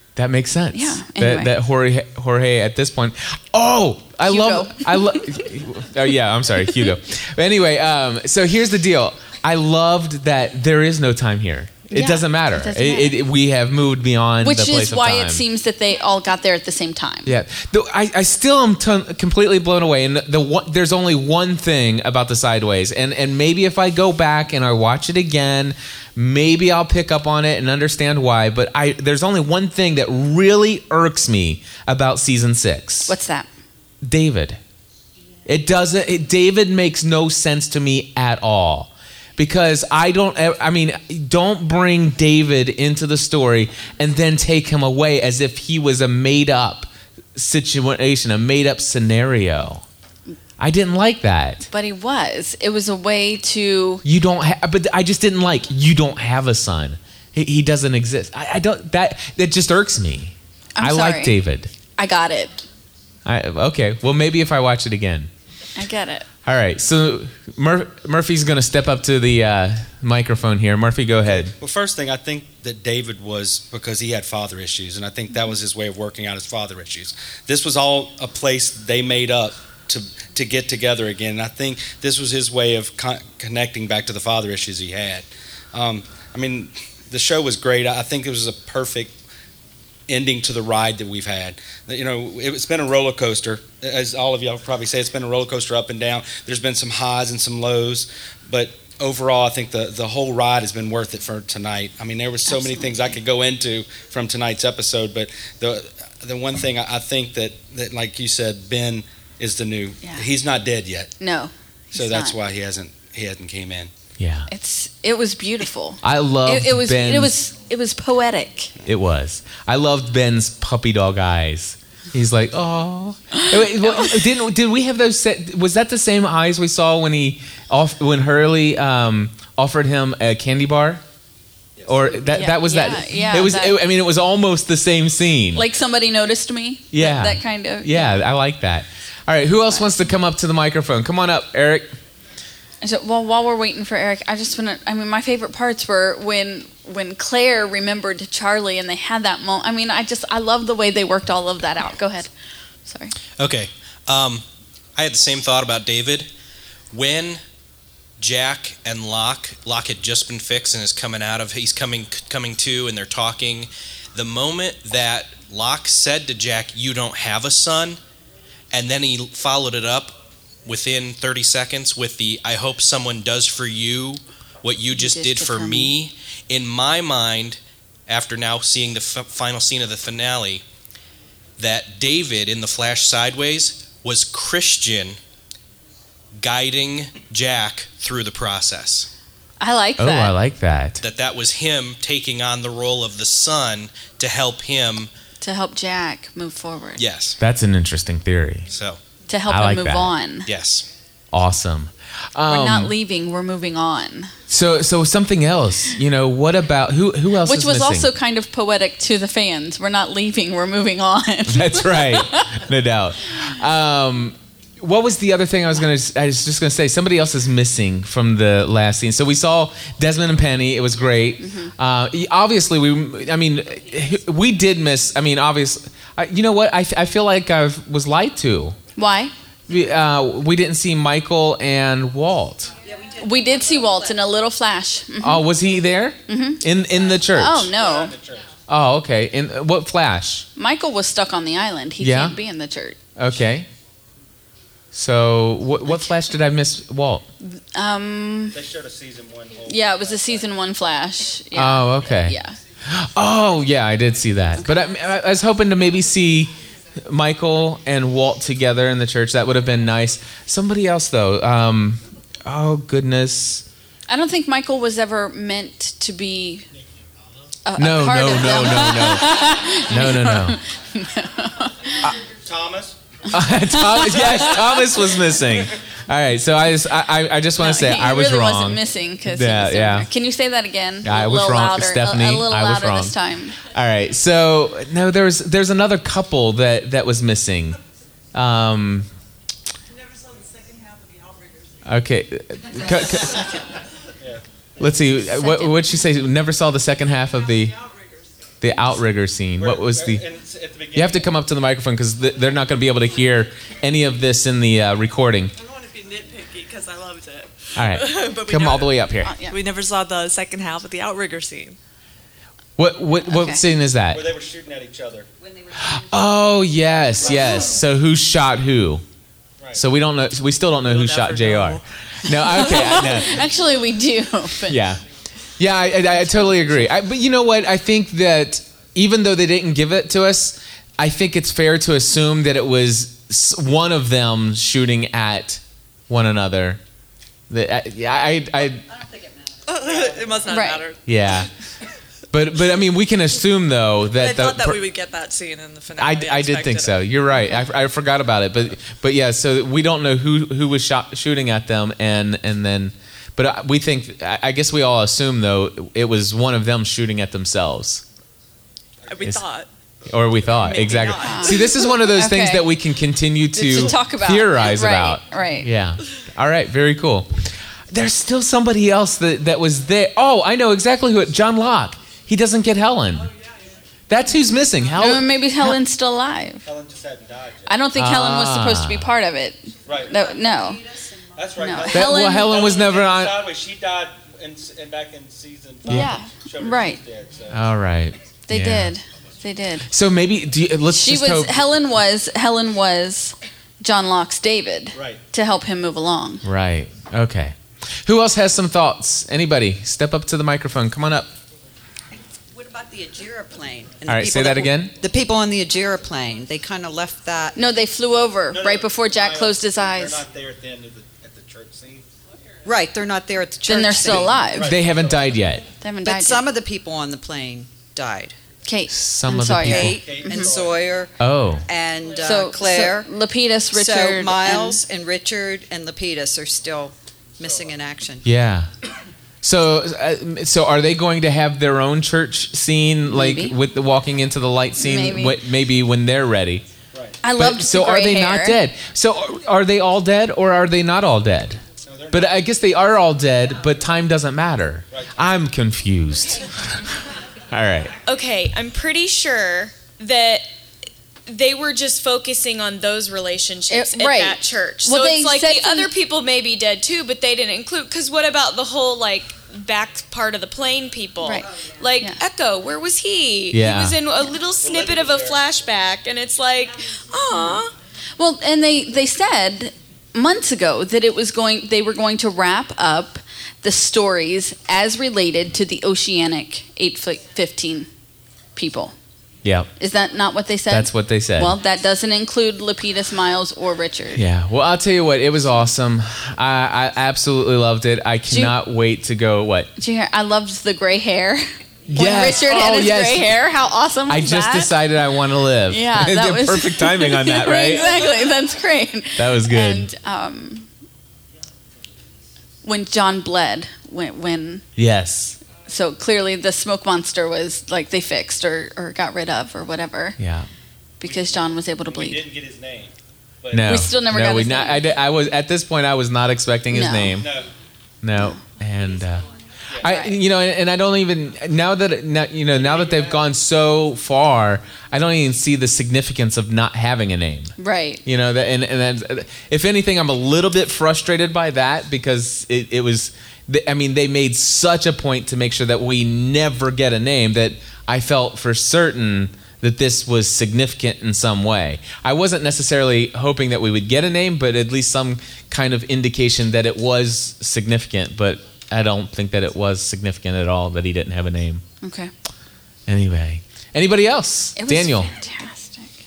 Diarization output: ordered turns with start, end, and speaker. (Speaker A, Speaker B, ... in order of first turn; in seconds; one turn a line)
Speaker A: 0.2-15.4
Speaker B: 0.7-1.5
Speaker B: 4.2-5.2
Speaker B: 11.9-13.2
Speaker B: 14.4-17.3
Speaker A: 17.2-33.1
Speaker B: 33.1-33.5
Speaker A: 34.0-34.6
Speaker A: 35.5-49.9
Speaker A: 50.6-51.7
Speaker B: 51.7-54.0
Speaker A: 54.0-61.7
Speaker B: 60.8-61.4
Speaker B: 62.0-62.6
Speaker A: 63.3-65.3
Speaker B: 65.8-66.3
Speaker A: 66.5-71.5
Speaker C: 71.4-89.1
Speaker C: 90.1-111.1
Speaker B: 102.5-103.0
Speaker B: 111.2-112.3
Speaker C: 111.9-113.9
Speaker A: 114.2-114.5
Speaker B: 114.5-118.7
Speaker A: 116.0-117.3
Speaker A: 118.9-131.0
Speaker B: 123.8-124.1
Speaker C: 131.8-132.2
Speaker A: 131.9-135.6
Speaker B: 132.3-133.8
Speaker B: 135.6-138.2
Speaker A: 136.9-141.9
Speaker B: 142.8-152.3
Speaker B: 152.9-153.2
Speaker D: 153.4-154.4
Speaker D: 155.0-156.3
Speaker D: 156.9-157.4
Speaker D: 158.2-168.0
Speaker D: 168.7-180.6
Speaker B: 174.9-175.9
Speaker D: 181.6-185.2
Speaker D: 186.4-189.1
Speaker B: 189.6-190.3
Speaker A: 190.0-191.0
Speaker D: 191.0-195.1
Speaker B: 195.4-197.0
Speaker D: 197.0-197.4
Speaker A: 197.4-198.7
Speaker D: 198.7-199.0
Speaker B: 199.3-200.5
Speaker A: 199.5-200.1
Speaker D: 200.4-200.9
Speaker A: 201.3-202.9
Speaker B: 202.5-204.3
Speaker A: 204.5-208.1
Speaker B: 207.4-212.5
Speaker A: 211.5-228.8
Speaker B: 221.4-221.7
Speaker B: 229.0-229.3
Speaker A: 229.7-232.7
Speaker E: 232.8-234.0
Speaker B: 233.2-235.4
Speaker A: 235.2-237.7
Speaker B: 236.3-236.6
Speaker B: 237.3-238.1
Speaker C: 237.7-238.5
Speaker A: 238.7-240.5
Speaker B: 240.6-243.0
Speaker A: 242.0-242.4
Speaker A: 243.2-243.7
Speaker A: 244.9-247.2
Speaker B: 247.6-248.6
Speaker C: 248.5-250.4
Speaker B: 249.7-252.6
Speaker A: 251.5-256.5
Speaker A: 257.1-263.6
Speaker B: 264.1-266.7
Speaker B: 267.7-271.9
Speaker A: 267.8-270.6
Speaker C: 272.3-273.0
Speaker A: 273.3-280.1
Speaker B: 273.8-274.4
Speaker B: 277.6-283.6
Speaker A: 281.0-287.8
Speaker A: 288.3-289.1
Speaker F: 290.8-291.6
Speaker A: 291.9-293.5
Speaker A: 294.8-297.8
Speaker B: 295.4-295.8
Speaker A: 298.6-300.2
Speaker C: 299.6-301.3
Speaker A: 300.9-305.5
Speaker F: 305.7-311.8
Speaker A: 307.8-309.3
Speaker B: 309.2-309.6
Speaker A: 312.8-314.3
Speaker B: 313.3-313.6
Speaker C: 314.1-315.3
Speaker E: 315.4-316.5
Speaker A: 315.8-319.0
Speaker C: 317.2-317.8
Speaker A: 319.8-323.5
Speaker F: 320.9-321.8
Speaker B: 322.5-324.8
Speaker A: 324.7-325.0
Speaker A: 325.6-336.8
Speaker A: 337.5-338.9
Speaker E: 338.7-340.4
Speaker F: 339.7-341.0
Speaker B: 340.5-340.9
Speaker A: 341.1-341.5
Speaker A: 342.3-344.9
Speaker F: 344.2-347.2
Speaker A: 346.0-358.0
Speaker F: 359.1-359.7
Speaker A: 360.1-373.3
Speaker F: 360.7-362.0
Speaker B: 361.2-362.7
Speaker B: 363.5-365.7
Speaker A: 374.1-375.8
Speaker B: 375.0-376.6
Speaker C: 376.6-377.8
Speaker B: 377.7-380.8
Speaker A: 377.9-379.1
Speaker C: 379.9-380.2
Speaker E: 380.1-381.5
Speaker C: 381.4-387.6
Speaker B: 381.6-382.6
Speaker A: 381.9-383.5
Speaker B: 385.9-387.0
Speaker A: 385.9-386.1
Speaker A: 387.5-388.9
Speaker B: 388.5-389.9
Speaker A: 389.9-391.6
Speaker B: 390.9-396.4
Speaker C: 394.9-395.2
Speaker A: 396.4-401.3
Speaker E: 402.5-407.7
Speaker A: 404.1-404.9
Speaker B: 407.6-410.2
Speaker C: 408.5-412.1
Speaker E: 412.6-414.4
Speaker B: 413.7-414.7
Speaker C: 414.0-415.4
Speaker A: 414.6-415.7
Speaker B: 415.8-416.4
Speaker E: 416.0-418.4
Speaker B: 418.6-420.6
Speaker A: 418.9-420.0
Speaker E: 419.6-423.1
Speaker C: 419.9-421.0
Speaker A: 421.2-421.6
Speaker B: 422.2-424.8
Speaker E: 423.7-428.3
Speaker C: 427.4-427.7
Speaker A: 428.2-428.7
Speaker A: 429.4-436.6
Speaker B: 433.1-433.6
Speaker B: 434.8-435.4
Speaker B: 437.2-438.6
Speaker A: 437.4-441.6
Speaker C: 441.9-442.5
Speaker A: 442.1-446.9
Speaker C: 444.9-445.2
Speaker A: 447.5-447.9
Speaker G: 448.0-450.5
Speaker G: 451.3-467.7
Speaker B: 453.7-455.9
Speaker B: 461.2-461.5
Speaker A: 463.5-464.0
Speaker C: 464.6-465.4
Speaker B: 468.2-477.9
Speaker B: 478.6-478.9
Speaker A: 479.4-479.7
Speaker B: 479.8-484.2
Speaker A: 480.7-481.6
Speaker A: 484.1-489.7
Speaker B: 488.3-488.6
Speaker B: 489.8-494.8
Speaker A: 491.9-493.3
Speaker A: 494.1-498.0
Speaker B: 495.7-500.7
Speaker A: 499.2-499.9
Speaker B: 502.6-504.6
Speaker A: 504.8-505.4
Speaker B: 505.7-510.2
Speaker A: 510.2-510.5
Speaker B: 511.0-512.3
Speaker C: 511.0-513.8
Speaker A: 513.5-517.3
Speaker B: 513.7-514.9
Speaker B: 516.7-517.1
Speaker C: 517.1-517.5
Speaker A: 518.0-519.3
Speaker A: 519.8-551.6
Speaker B: 519.8-520.1
Speaker C: 522.5-523.2
Speaker B: 527.6-528.0
Speaker B: 551.8-552.1
Speaker A: 552.9-555.1
Speaker B: 554.6-555.9